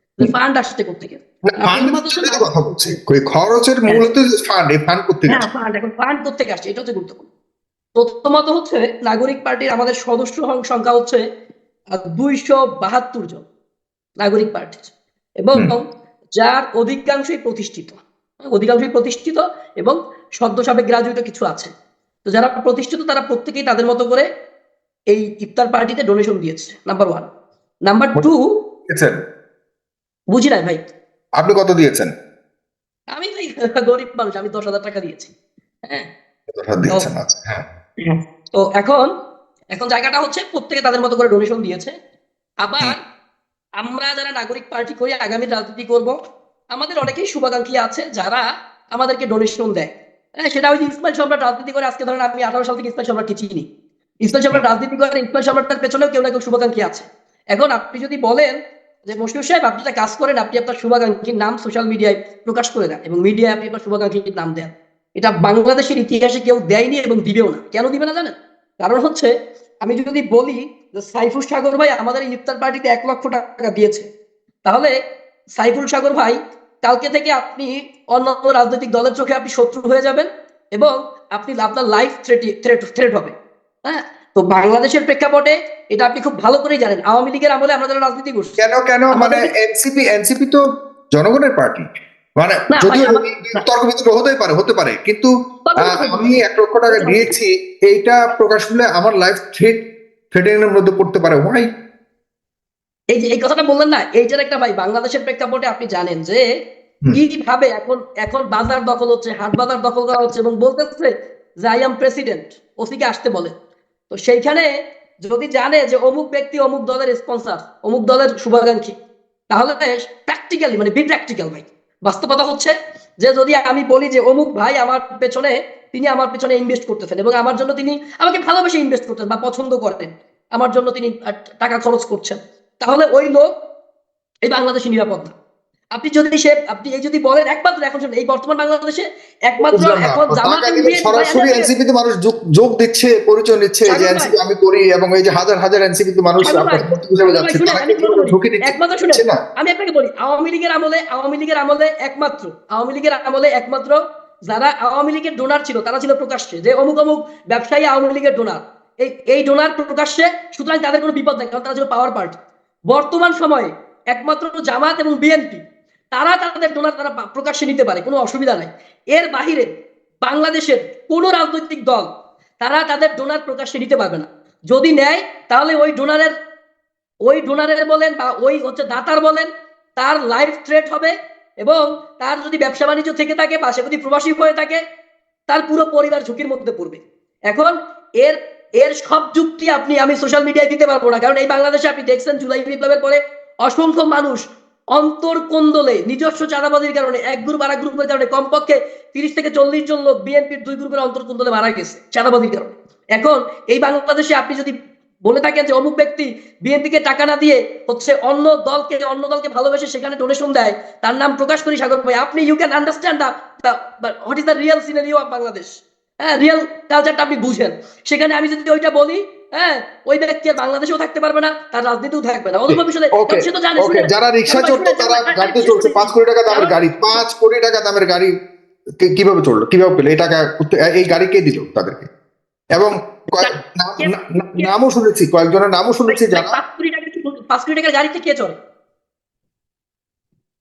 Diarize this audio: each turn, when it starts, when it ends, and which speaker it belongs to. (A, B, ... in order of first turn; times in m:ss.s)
0:00.2-0:02.9 A
0:01.5-0:05.4 B
0:05.3-0:07.2 A
0:07.9-0:11.2 A
0:11.9-0:13.4 A
0:14.2-0:15.8 A
0:16.4-0:21.7 A
0:22.2-0:24.2 A
0:25.1-0:27.3 A
0:27.8-0:28.6 A
0:28.9-0:29.2 B
0:30.3-0:30.8 A
0:31.4-0:32.1 B
0:33.1-0:35.3 A
0:36.6-0:37.6 B
0:38.0-0:39.1 A
0:39.7-0:41.9 A
0:42.6-0:43.0 A
0:43.8-0:46.2 A
0:46.7-0:53.7 A
0:54.2-1:09.3 A
1:09.8-1:14.1 A
1:14.6-1:14.9 A
1:15.6-1:23.3 A
1:23.8-1:28.6 A
1:28.6-1:30.6 B
1:29.1-1:29.5 A
1:31.1-1:31.9 B
1:32.4-1:41.7 B
1:32.7-1:33.6 A
1:35.7-1:37.3 A
1:43.1-1:46.5 A
1:47.1-1:53.5 A
1:54.1-1:59.0 A
1:59.5-2:13.6 A
2:14.4-2:15.3 A
2:15.9-2:21.7 A
2:19.7-2:29.4 B
2:23.9-2:24.3 A
2:26.4-2:49.7 A
2:50.2-2:52.1 A
2:52.6-2:56.3 A
2:57.2-3:04.8 A
3:05.5-3:24.7 A
3:25.2-3:47.2 A
3:42.7-3:48.3 B
3:49.0-3:52.1 B
3:52.7-3:56.6 B
3:53.4-3:54.7 A
3:56.1-3:58.6 A